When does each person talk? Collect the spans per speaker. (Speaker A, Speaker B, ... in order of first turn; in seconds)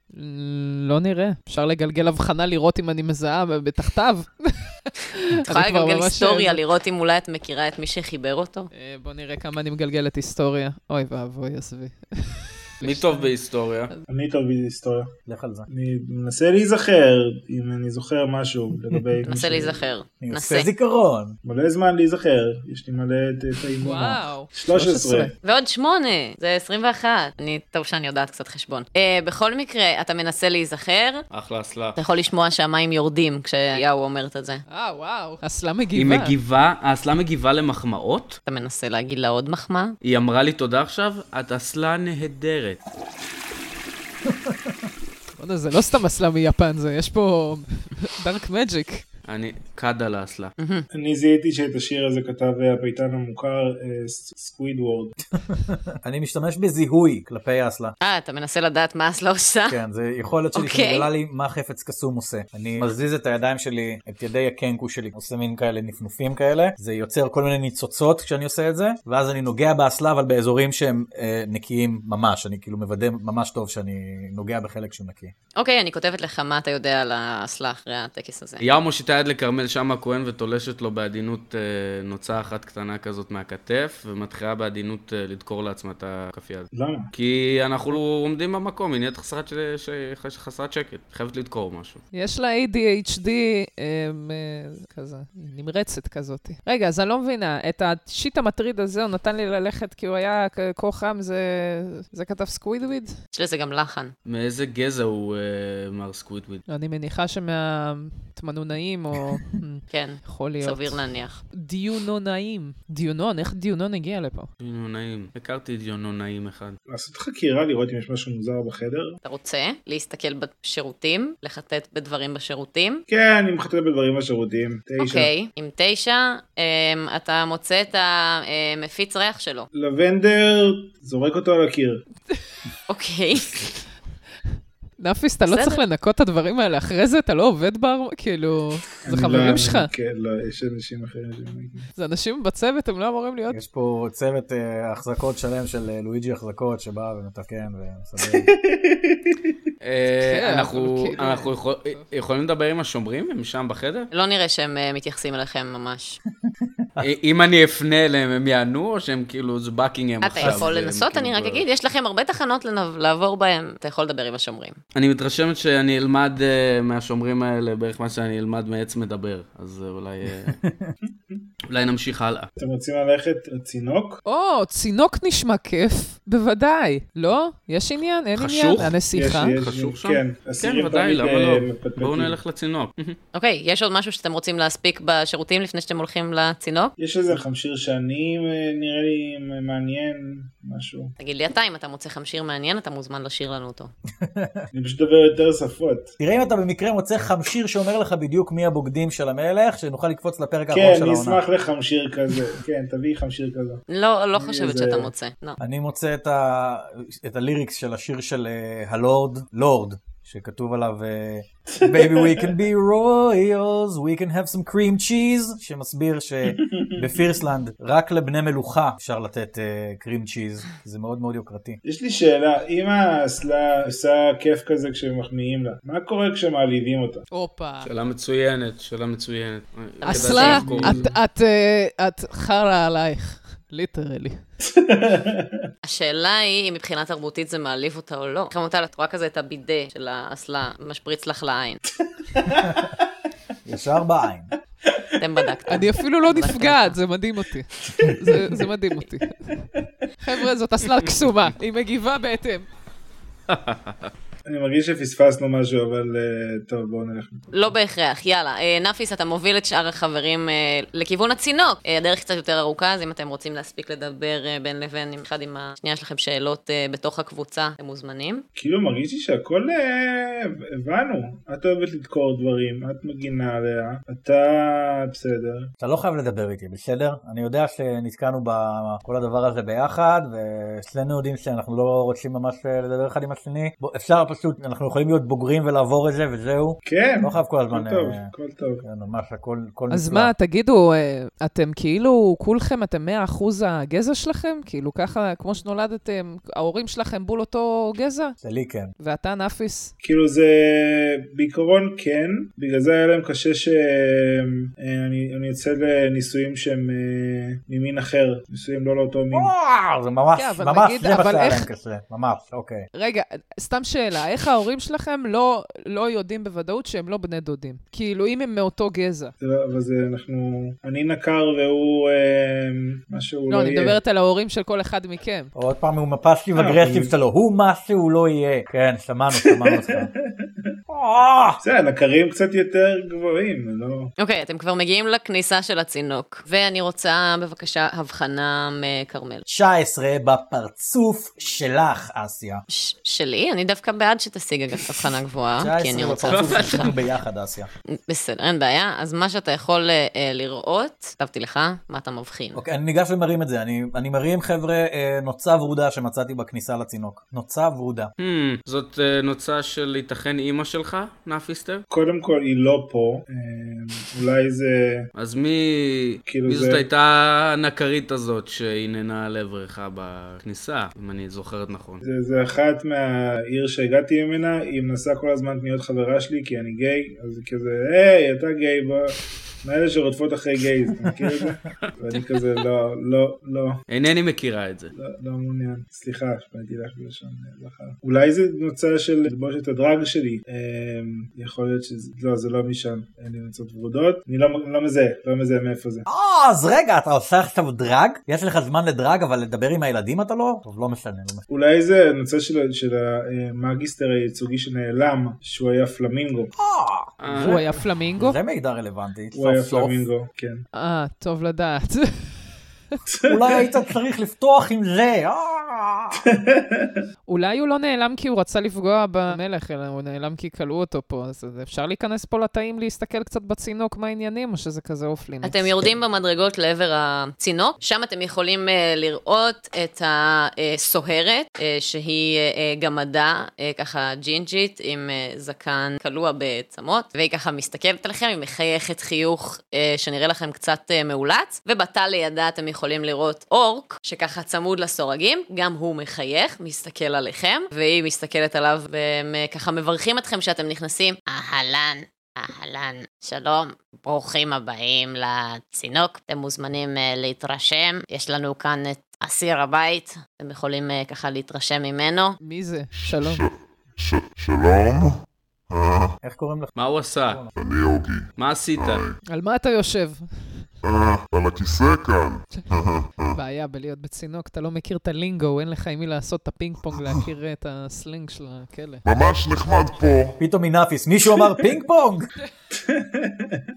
Speaker A: 0.1-6.6, 8.7-13.3, 23.8-25.3, 34.7-36.3, 45.4-49.1, 92.1-103.2, 106.7-114.5, 135.0-139.9, 142.0-143.6, 150.1-152.1, 174.3-179.6, 227.3-227.9, 230.1-234.5, 245.7-249.6, 250.2-252.7, 289.9-298.4, 299.0-299.9, 310.4-311.7, 312.9-319.3, 323.5-325.5, 407.4-408.4, 410.7-412.6, 417.3-425.8, 462.4-463.5, 469.3-470.7, 473.3-479.0
Speaker B: 5.5-8.7, 19.2-20.7, 25.4-31.2, 32.0-34.6, 38.5-40.0, 50.6-50.9, 58.0-59.8, 60.5-61.1, 75.6-78.7, 103.3-104.1, 109.9-111.4, 119.2-123.0, 125.0-129.7, 132.9-133.6, 135.5-135.8, 154.1-156.2, 160.2-164.8, 183.3-186.9, 191.2-193.9, 203.9-205.6, 230.0-230.6, 235.8-241.8, 245.2-247.0, 257.5-268.4, 334.2-339.5, 342.7-346.9, 347.9-352.6, 425.4-462.4
Speaker C: 12.8-13.9, 31.3-32.0, 36.0-38.4, 40.0-42.8, 49.3-50.5, 78.6-92.0, 104.3-106.6, 114.6-116.8, 149.8-154.1, 157.0-161.6, 164.9-170.6, 171.7-172.5, 178.4-179.0, 179.6-183.2, 227.8-231.1, 253.5-254.1, 346.3-347.0, 358.2-361.8, 365.1-372.0, 383.9-384.9, 407.2-407.6, 466.8-467.4, 468.4-469.0
Speaker D: 14.1-15.1, 15.7-19.9, 21.4-25.3, 50.9-55.2, 86.7-87.1, 116.9-119.2, 123.1-125.3, 129.7-132.1, 139.0-141.9, 148.2-149.4, 172.6-174.2, 179.1-182.4, 187.0-191.1, 194.7-196.1, 200.7-203.8, 204.3-205.1, 211.7-212.6, 216.5-217.3, 221.8-227.2, 230.6-231.1, 234.6-235.6, 242.3-242.9, 247.9-248.7, 254.5-257.5, 268.6-275.7, 286.8-288.9, 300.0-309.5, 319.4-324.0, 326.5-327.1, 329.4-330.2, 331.6-334.1, 361.9-365.1, 366.3-366.9, 372.0-383.8, 384.9-396.1, 401.5-406.5, 409.3-410.6, 413.1-413.8, 416.2-417.0, 482.8-483.6
Speaker E: 15.3-15.7, 20.2-21.4, 44.3-44.7, 55.5-57.9, 59.7-75.3, 143.5-148.5, 156.6-157.1, 170.6-170.9, 194.2-194.6, 196.2-201.4, 205.6-221.8, 242.5-242.9, 243.7-244.5, 275.8-288.3, 288.8-290.3, 298.4-298.9, 309.3-312.9, 325.6-330.1, 330.9-331.6, 339.5-342.6, 345.6-347.7, 352.6-358.1, 396.1-401.4, 406.6-407.6, 408.2-410.0, 413.3-416.2, 466.2-467.5, 480.4-482.3
Speaker F: 463.0-466.2, 467.6-469.2, 470.8-473.2, 479.1-480.4